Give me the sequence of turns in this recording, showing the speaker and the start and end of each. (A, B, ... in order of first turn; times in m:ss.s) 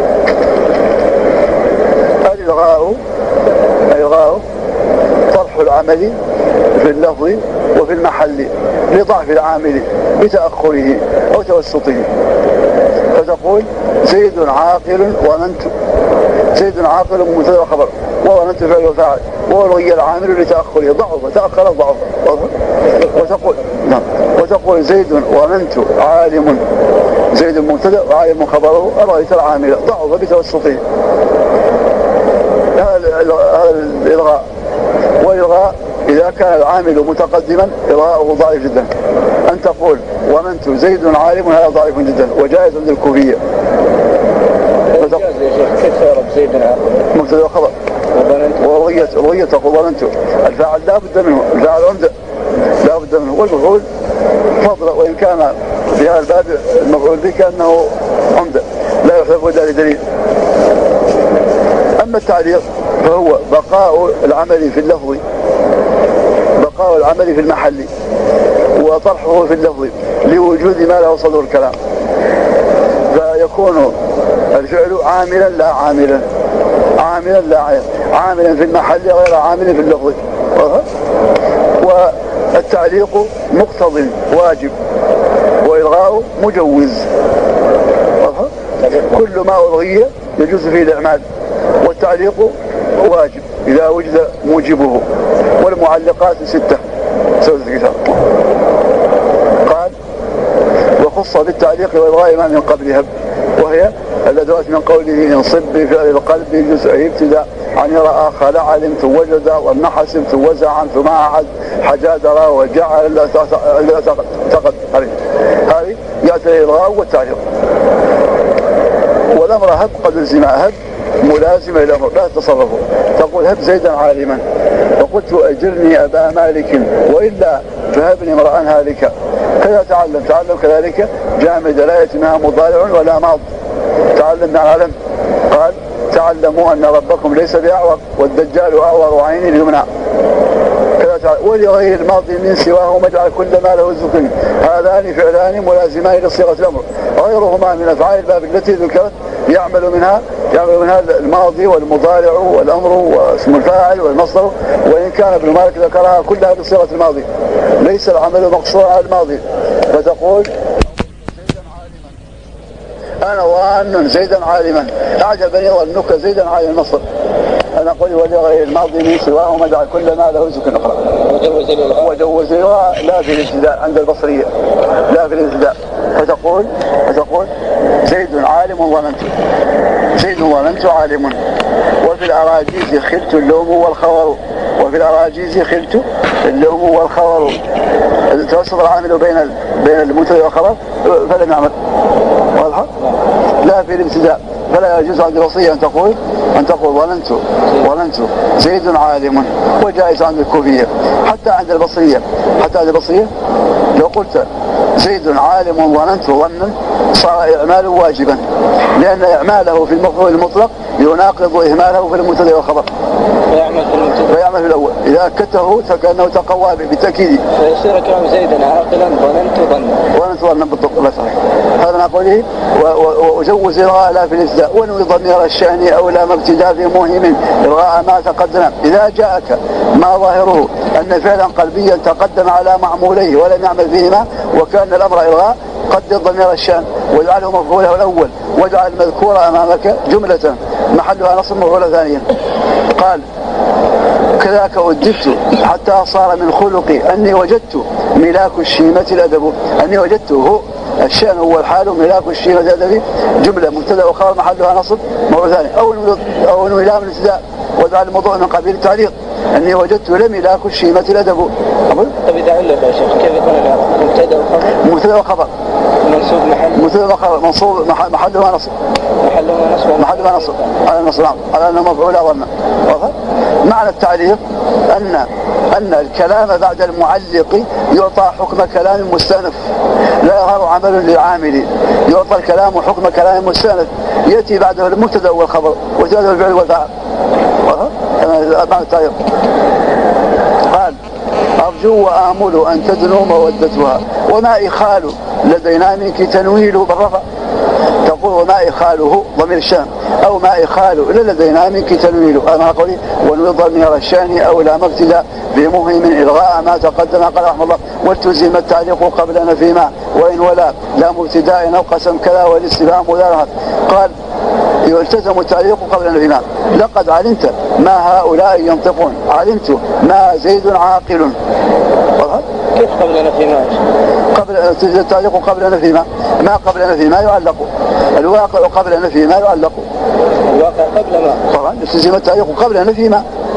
0:02.2-0:03.0 A
0:03.9-0:04.4 A
0:05.3-0:06.2 A
0:06.8-0:12.1 A
0:13.1-0:15.7 A
0:16.5-0:22.5 A
0:23.1-0:26.6 A
0:27.3-0:30.8 A
0:32.8-0:34.4 A
0:35.2-0:38.9 A
0:39.5-0:43.4 A
0:44.9-0:47.0 B
0:47.1-0:47.7 A
0:48.1-0:48.6 B
0:48.6-0:52.1 A
0:52.8-0:53.8 A
0:54.6-1:00.0 A
1:02.0-1:05.2 A
1:06.6-1:07.9 A
1:08.8-1:11.8 A
1:13.1-1:14.0 A
1:14.5-1:16.2 A
1:17.0-1:20.9 A
1:21.8-1:24.7 A
1:25.6-1:27.1 A
1:28.2-1:28.5 A
1:29.0-1:31.2 A
1:31.8-1:35.0 A
1:35.6-1:36.8 A
1:37.4-1:38.2 A
1:39.6-1:39.9 A
1:41.0-1:57.4 A
1:59.3-2:04.4 A
2:05.0-2:13.4 A
2:14.2-2:15.0 A
2:15.5-2:19.9 A
2:21.0-2:37.3 A
2:37.8-2:40.5 A
2:41.2-2:42.2 A
2:43.2-2:47.0 A
2:47.8-2:51.1 A
2:51.1-2:52.2 B
2:52.0-2:54.5 A
2:55.1-2:57.5 A
2:58.0-2:59.3 A
3:00.2-3:01.4 A
3:02.0-3:07.6 A
3:08.3-3:11.7 A
3:12.6-3:12.9 A
3:13.6-3:23.3 A
3:23.9-3:28.4 A
3:29.0-3:32.9 A
3:33.5-3:34.4 B
3:34.3-3:37.4 A
3:37.6-3:40.0 B
3:40.1-4:02.3 A
4:02.9-4:03.2 A
4:04.4-4:22.1 A
4:22.2-4:24.8 B
4:24.8-4:25.5 A
4:26.0-4:26.9 B
4:26.8-4:28.7 A
4:29.2-4:30.8 B
4:30.0-4:39.7 A
4:40.2-4:46.9 A
4:47.6-4:49.2 A
4:50.7-4:51.0 A
4:51.6-4:57.2 A
4:58.0-5:14.1 A
5:14.8-5:21.4 A
5:22.2-5:22.4 A
5:22.8-5:23.8 B
5:24.3-5:29.9 A
5:30.5-5:31.4 B
5:31.5-5:33.2 A